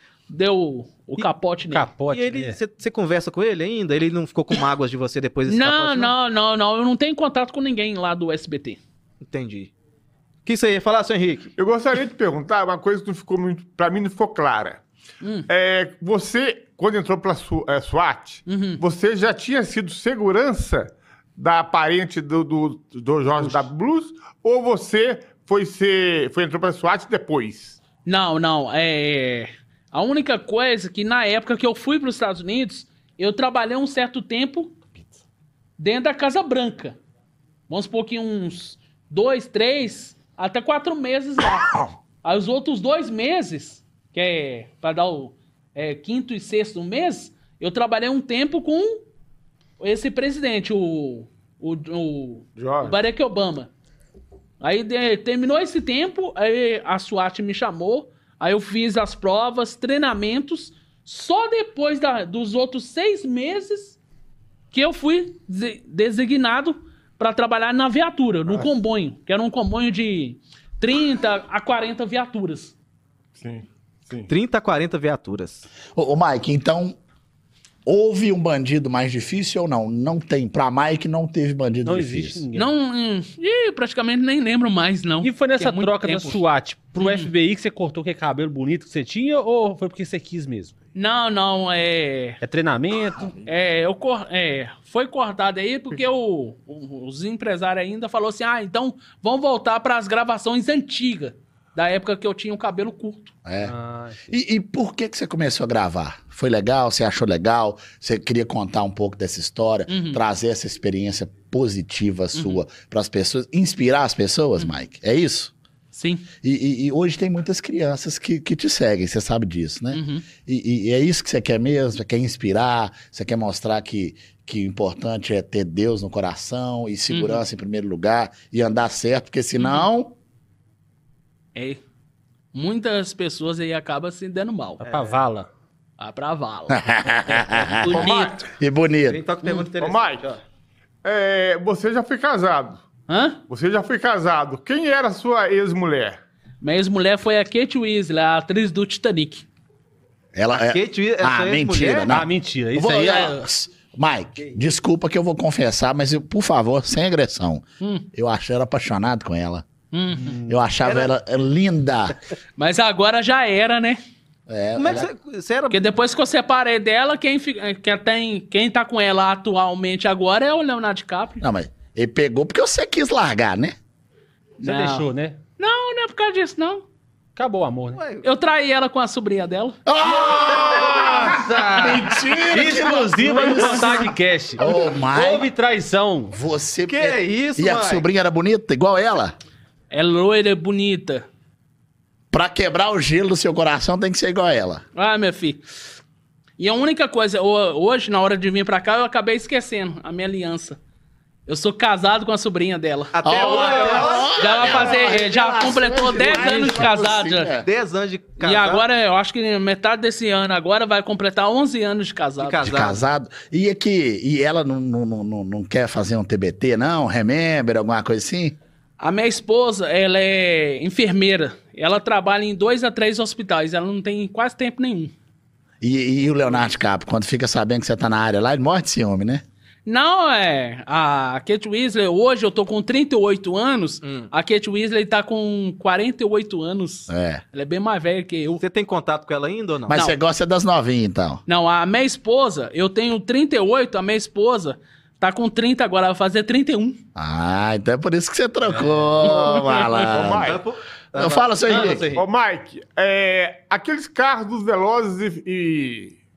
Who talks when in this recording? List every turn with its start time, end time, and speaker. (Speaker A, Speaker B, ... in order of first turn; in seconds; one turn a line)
Speaker A: 0.3-1.9
Speaker B: 1.7-2.6
Speaker C: 2.1-6.1
Speaker A: 5.5-8.8
Speaker C: 9.2-9.7
Speaker C: 10.4-11.5
Speaker D: 11.6-14.8
Speaker A: 15.2-15.5
Speaker D: 15.5-27.8
Speaker A: 18.5-18.8
Speaker A: 28.0-34.7
Speaker A: 35.8-37.0
Speaker A: 37.7-49.0
Speaker A: 49.8-53.7
Speaker D: 52.6-53.0
Speaker A: 54.6-64.0
Speaker A: 64.7-72.7
Speaker D: 73.4-74.3
Speaker C: 74.3-75.7
Speaker E: 75.9-77.0
Speaker E: 77.8-82.4
Speaker B: 81.8-82.7
Speaker A: 82.5-86.4
Speaker B: 85.2-90.8
Speaker A: 87.0-87.3
Speaker A: 90.9-92.4
Speaker B: 92.4-93.4
Speaker A: 93.4-103.3
Speaker E: 103.4-103.7
Speaker B: 103.6-104.3
Speaker E: 104.3-115.5
Speaker A: 109.9-110.2
Speaker A: 112.3-112.6
Speaker A: 115.9-116.3
Speaker E: 116.4-130.1
Speaker A: 119.9-120.2
Speaker A: 127.1-127.4
Speaker A: 129.6-129.8
Speaker A: 131.5-131.8
Speaker A: 132.5-134.8
Speaker C: 134.8-135.2
Speaker B: 134.9-135.5
Speaker A: 136.0-138.4
Speaker E: 136.7-139.2
Speaker D: 137.8-138.5
Speaker C: 139.1-140.4
Speaker D: 139.7-140.2
Speaker D: 141.0-142.8
Speaker A: 143.1-143.4
Speaker D: 143.5-146.2
Speaker A: 146.6-149.4
Speaker E: 150.3-159.6
Speaker C: 150.5-152.1
Speaker B: 152.1-153.4
Speaker A: 157.8-158.1
Speaker A: 159.9-160.4
Speaker C: 160.2-161.1
Speaker E: 160.4-162.2
Speaker A: 162.6-164.0
Speaker E: 164.5-165.1
Speaker C: 164.8-165.9
Speaker A: 165.7-171.4
Speaker E: 171.4-173.7
Speaker A: 174.6-175.0
Speaker B: 174.6-175.4
Speaker A: 175.6-176.8
Speaker B: 177.3-178.0
Speaker C: 177.9-178.2
Speaker A: 178.2-179.8
Speaker E: 179.8-185.5
Speaker C: 180.1-182.2
Speaker B: 182.5-186.3
Speaker C: 183.4-184.1
Speaker C: 184.6-185.2
Speaker E: 186.3-189.3
Speaker C: 186.9-188.0
Speaker A: 189.9-191.2
Speaker E: 192.3-194.8
Speaker A: 194.9-195.6
Speaker A: 196.6-200.8
Speaker A: 201.5-207.5
Speaker C: 203.1-205.2
Speaker E: 203.2-207.7
Speaker C: 207.6-208.8
Speaker A: 208.4-212.6
Speaker C: 212.4-213.0
Speaker E: 212.6-218.6
Speaker A: 219.0-225.1
Speaker E: 225.8-229.4
Speaker A: 229.8-238.6
Speaker C: 234.0-234.3
Speaker E: 237.1-237.4
Speaker C: 238.6-240.0
Speaker E: 239.9-241.4
Speaker A: 241.5-247.0
Speaker E: 247.2-250.6
Speaker B: 248.7-249.1
Speaker A: 249.2-249.8
Speaker D: 249.9-250.6
Speaker C: 250.2-252.2
Speaker E: 251.1-252.1
Speaker D: 251.7-256.2